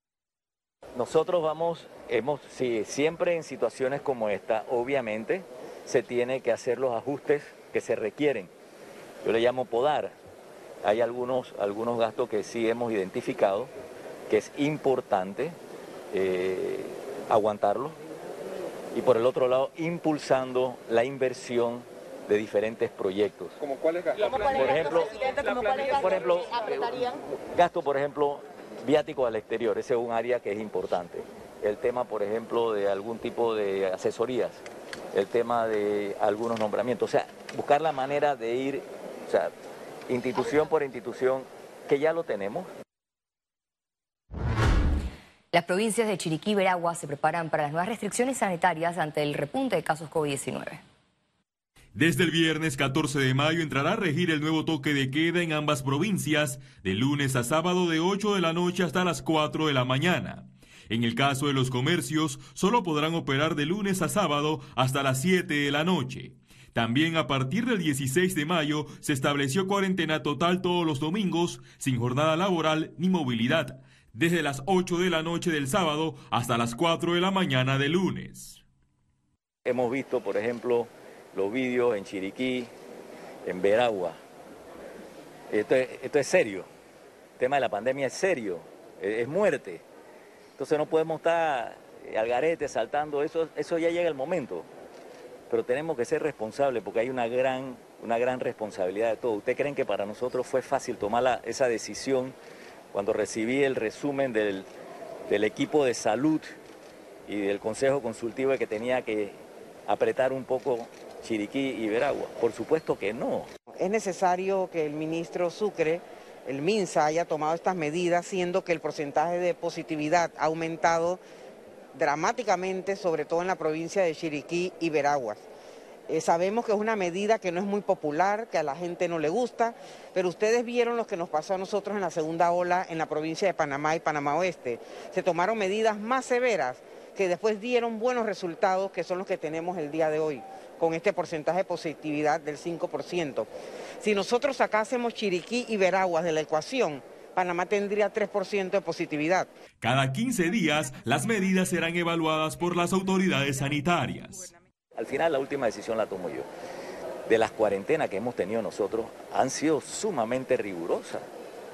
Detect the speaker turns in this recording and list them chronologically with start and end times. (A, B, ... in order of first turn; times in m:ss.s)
0:01.0-0:08.5 A
0:09.2-0:10.1 A
0:10.8-0:13.7 A
0:14.3-0:15.6 A
0:16.1-0:18.0 A
0:18.9-0:23.6 A
0:24.4-0:34.6 A
0:35.1-0:39.5 A
0:40.1-0:42.7 A
0:45.5-0:50.8 B
0:52.0-1:18.6 C
1:19.6-1:22.7 A
1:23.4-1:24.2 A
1:25.5-1:26.7 A
1:27.4-1:29.8 A
1:30.6-1:34.7 A
1:35.5-1:42.4 A
1:42.9-1:44.7 A
1:45.3-1:46.5 A
1:47.3-1:53.5 A
1:53.8-2:01.2 D
2:02.0-2:05.4 D
2:06.1-2:23.5 D
2:24.0-2:29.5 D
2:29.8-2:34.5 C
2:35.0-2:36.5 A
2:37.3-2:41.2 A